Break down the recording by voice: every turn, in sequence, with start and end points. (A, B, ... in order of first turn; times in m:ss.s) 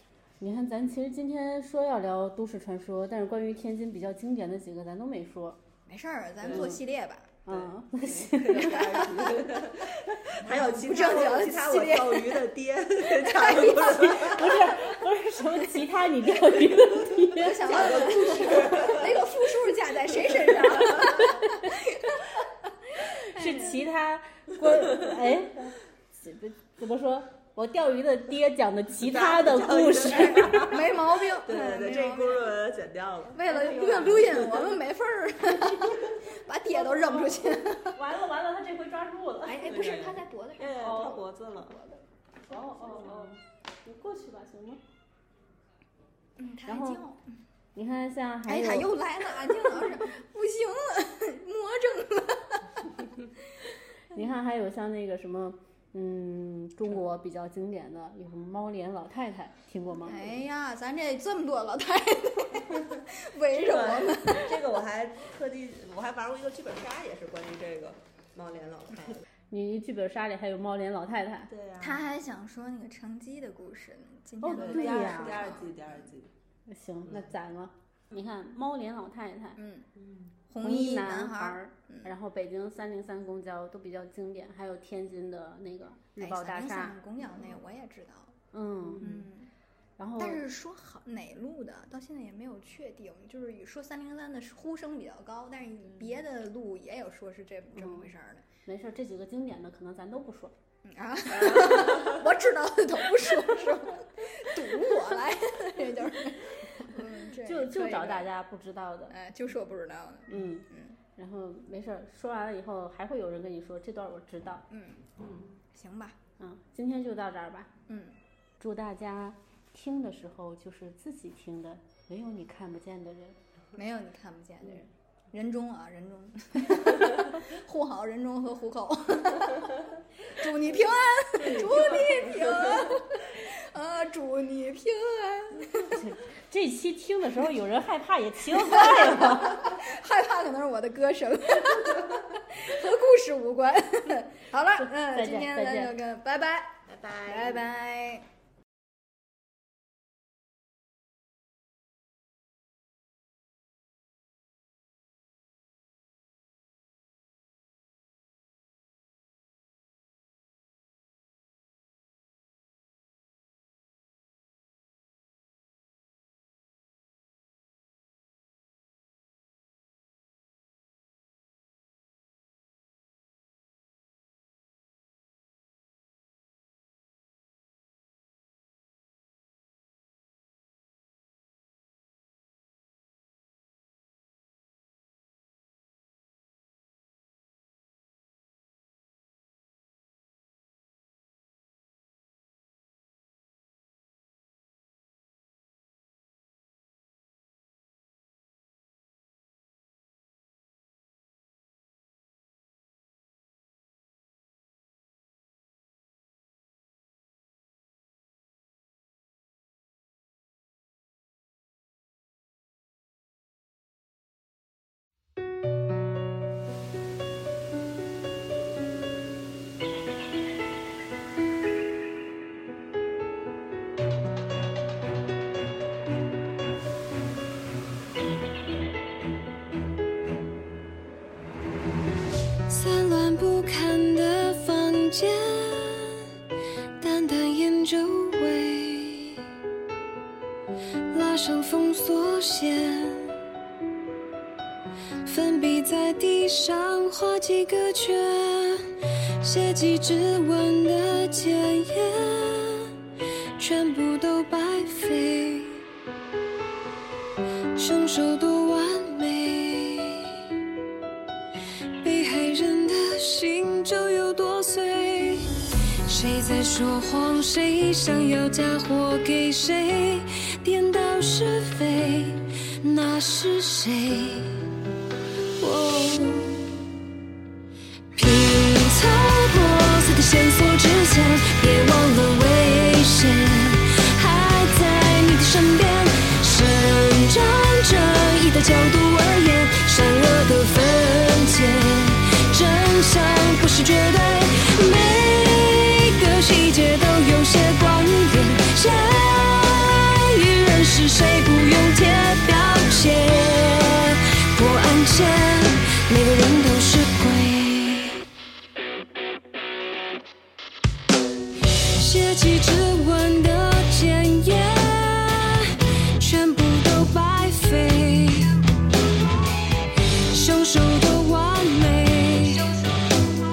0:00.4-0:05.6 A
0:05.9-0:07.4 B
0:06.4-0:06.8 C
0:07.4-0:08.8 A
0:07.5-0:14.7 C
0:08.6-0:09.4 B
0:10.5-0:12.5 B
0:13.0-0:14.9 B
0:13.8-0:17.8 A
0:17.2-0:23.9 B
0:17.6-0:19.3 C
0:20.3-0:21.4 C
0:21.4-0:21.7 A
0:23.2-0:30.7 A
0:29.0-0:34.8 C
0:30.3-0:32.6 B
0:33.3-0:38.0 B
0:33.5-0:34.1 A
0:36.6-0:39.9 A
0:39.4-0:42.0 B
0:39.6-0:41.8 C
0:40.7-0:41.2 A
0:42.5-0:44.8 A
0:43.0-0:43.3 C
0:46.4-0:47.2 B
0:46.7-0:47.0 A
0:47.7-0:49.0 A
0:48.4-0:52.7 B
0:54.1-1:00.2 A
1:00.0-1:04.6 B
1:03.5-1:09.2 C
1:09.5-1:11.5 A
1:11.5-1:12.0 C
1:11.8-1:16.1 B
1:14.4-1:15.4 A
1:14.5-1:16.3 C
1:16.7-1:19.6 A
1:17.0-1:17.3 C
1:19.6-1:19.9 B
1:20.0-1:20.3 C
1:20.5-1:22.1 B
1:20.6-1:27.0 A
1:26.2-1:28.4 B
1:28.5-1:29.2 A
1:29.0-1:29.5 B
1:30.0-1:30.4 A
1:30.2-1:38.4 B
1:37.7-1:38.1 A
1:38.6-1:40.5 A
1:40.8-1:48.3 B
1:41.3-1:42.2 C
1:46.8-1:49.1 A
1:49.1-1:51.0 B
1:50.3-1:54.6 A
1:54.7-1:55.1 B
1:55.2-1:55.6 C
1:55.7-1:56.2 B
1:56.4-1:57.7 A
1:57.9-1:58.2 B
1:58.6-2:03.4 A
2:03.8-2:16.0 B
2:11.4-2:13.0 C
2:15.9-2:19.8 A
2:18.5-2:28.2 B
2:24.8-2:25.9 A
2:26.9-2:27.7 C
3:52.7-3:56.2 D
3:57.0-3:59.4 D
4:01.1-4:03.4 D
4:05.2-4:13.0 D
4:13.6-4:15.8 D
4:17.7-4:20.6 D
4:22.0-4:34.8 D
4:35.6-4:36.9 D
4:38.1-5:08.2 D
5:11.9-5:18.6 D
5:19.7-5:23.0 D